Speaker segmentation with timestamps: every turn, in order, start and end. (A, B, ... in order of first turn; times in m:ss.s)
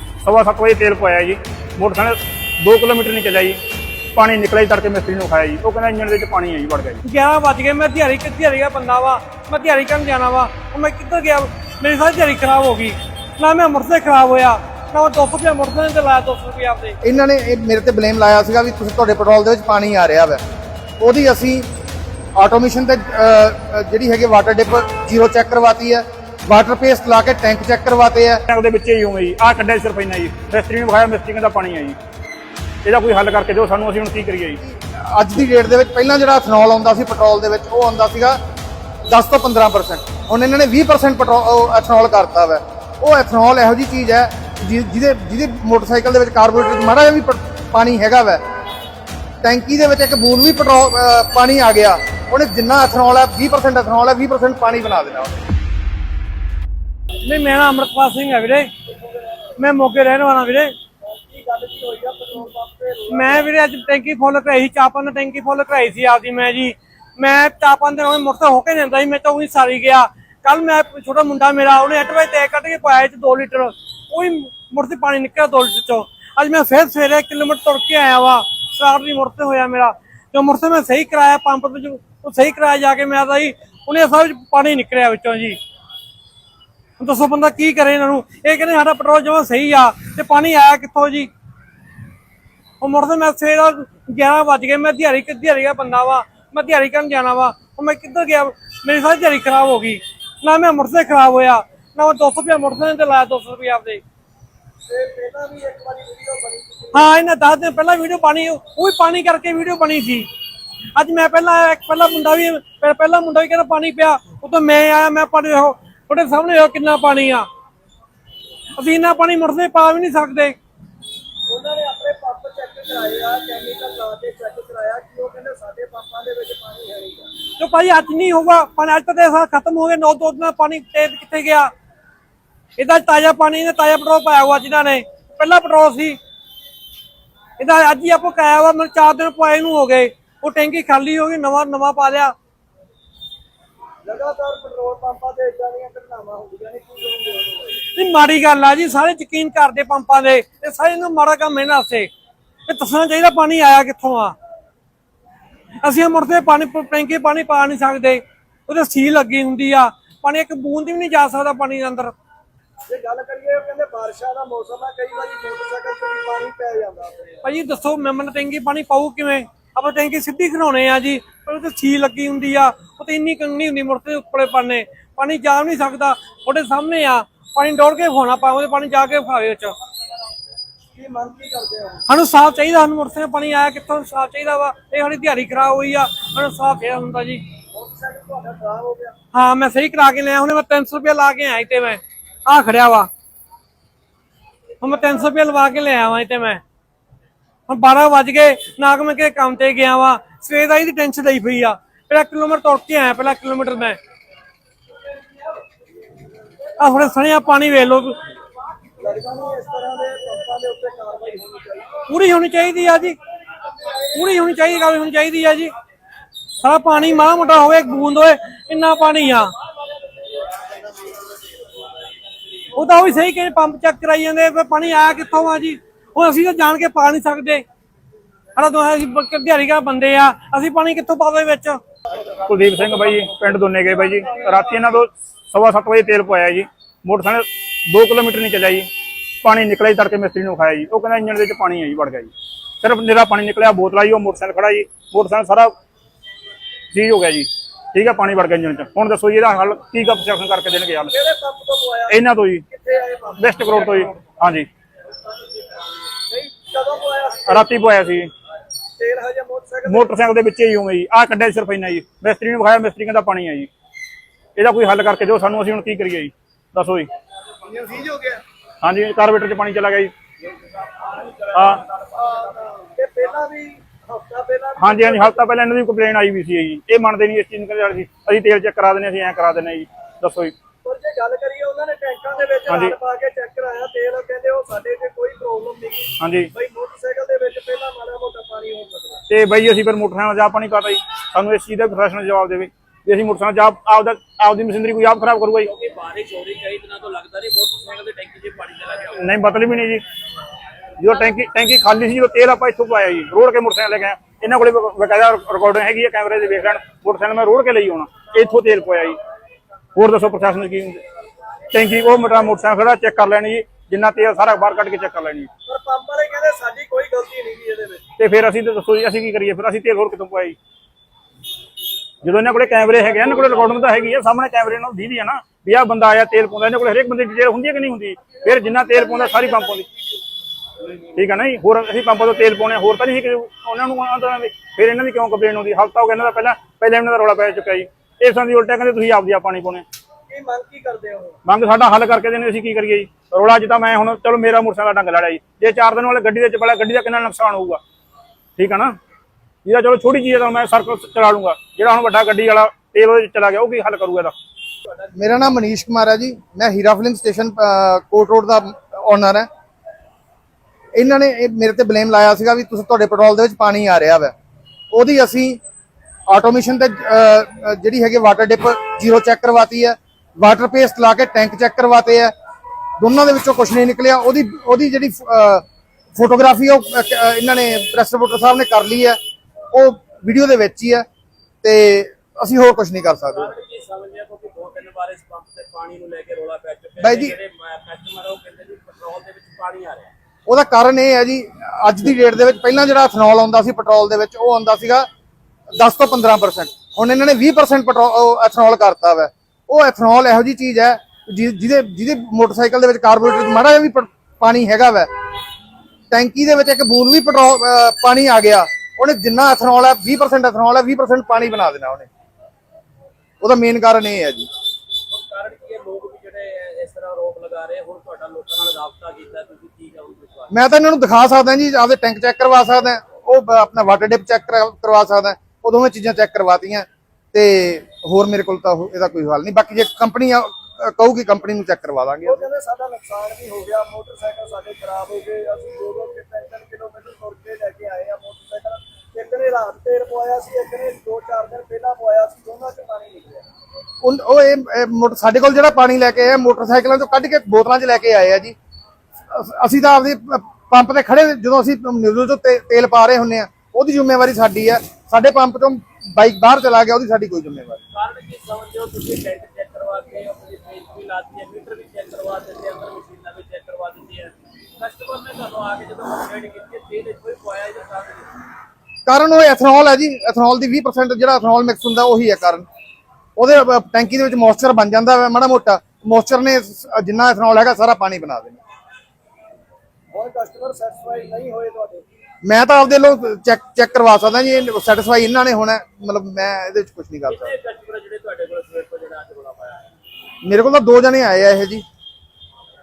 0:00.2-0:03.6 A
0:04.2-0:07.0 A
0:07.0-0:17.0 B
0:17.0-0:20.4 C
0:21.0-0:21.7 C
0:22.4-0:28.4 C
0:28.5-0:32.0 A
0:32.8-0:34.6 A
0:34.6-0:38.4 C
0:39.1-0:48.4 C
0:49.4-0:55.4 C
0:57.2-0:58.7 B
0:58.9-0:59.5 D
0:59.6-1:00.7 B
1:01.0-1:03.5 D
1:03.1-1:25.6 B
1:27.0-1:31.3 B
1:32.8-1:44.0 B
1:44.9-1:47.1 D
1:46.9-1:50.3 B
1:51.0-1:57.5 B
1:58.8-2:00.6 B
2:01.5-2:07.3 D
2:07.6-2:11.7 B
2:12.8-2:16.2 B
2:17.6-2:22.3 B
2:24.0-2:27.8 D
2:27.9-2:32.1 B
2:32.7-2:34.3 B
2:35.8-2:42.1 B
2:42.9-2:47.4 D
2:47.4-2:59.7 B
3:01.0-3:02.0 D
3:02.1-3:07.4 B
3:07.7-3:09.2 D
3:09.3-3:13.1 B
3:14.8-3:16.6 B
3:17.7-3:24.0 B
3:26.8-3:28.2 B
3:29.0-3:31.9 D
3:32.1-3:33.2 B
3:34.1-3:35.7 B
3:36.6-3:39.5 B
3:42.7-3:47.6 B
3:48.6-3:51.8 B
3:52.4-3:58.9 A
3:59.4-4:05.7 A
4:06.9-4:11.2 A
4:11.1-4:13.9 D
4:12.1-4:12.7 A
4:13.4-4:14.7 A
4:16.3-4:17.7 D
4:17.5-4:18.3 A
4:19.0-4:20.2 D
4:19.9-4:23.7 A
4:24.6-4:27.1 A
4:27.6-4:28.4 D
4:28.8-4:30.1 A
4:30.9-4:32.2 E
4:31.5-4:31.8 A
4:32.2-4:35.4 D
4:34.8-4:40.5 A
4:40.8-4:49.2 D
4:42.7-4:43.0 A
4:46.2-4:46.5 A
4:49.3-4:55.7 A
4:55.6-4:59.3 E
4:59.2-5:00.0 A
5:01.0-5:09.2 A
5:10.0-5:11.0 A
5:11.7-5:15.5 A
5:15.7-5:18.0 D
5:18.2-5:20.6 A
5:22.2-5:29.9 A
5:31.2-5:39.8 A
5:40.3-5:41.4 D
5:41.5-5:47.8 A
5:48.6-5:49.0 A
5:49.6-5:54.3 A
5:55.1-5:59.5 C
6:00.9-6:04.3 C
6:04.9-6:05.6 C
6:06.3-6:12.3 C
6:13.0-6:15.6 C
6:16.2-6:19.2 C
6:19.7-6:21.1 C
6:21.6-6:23.5 C
6:23.3-6:30.1 E
6:27.0-6:27.4 C
6:30.5-6:35.1 C
6:35.8-6:45.1 C
6:46.1-6:52.1 C
6:53.4-6:54.5 C
6:55.1-7:00.5 E
7:00.5-7:12.4 C
7:12.2-7:23.5 D
7:24.0-7:28.6 C
7:29.3-7:37.8 C
7:37.9-7:48.4 E
7:49.1-7:52.7 C
7:53.4-7:58.6 C
8:00.1-8:02.1 D
8:02.4-8:07.5 C
8:07.3-8:09.8 E
8:10.4-8:11.8 C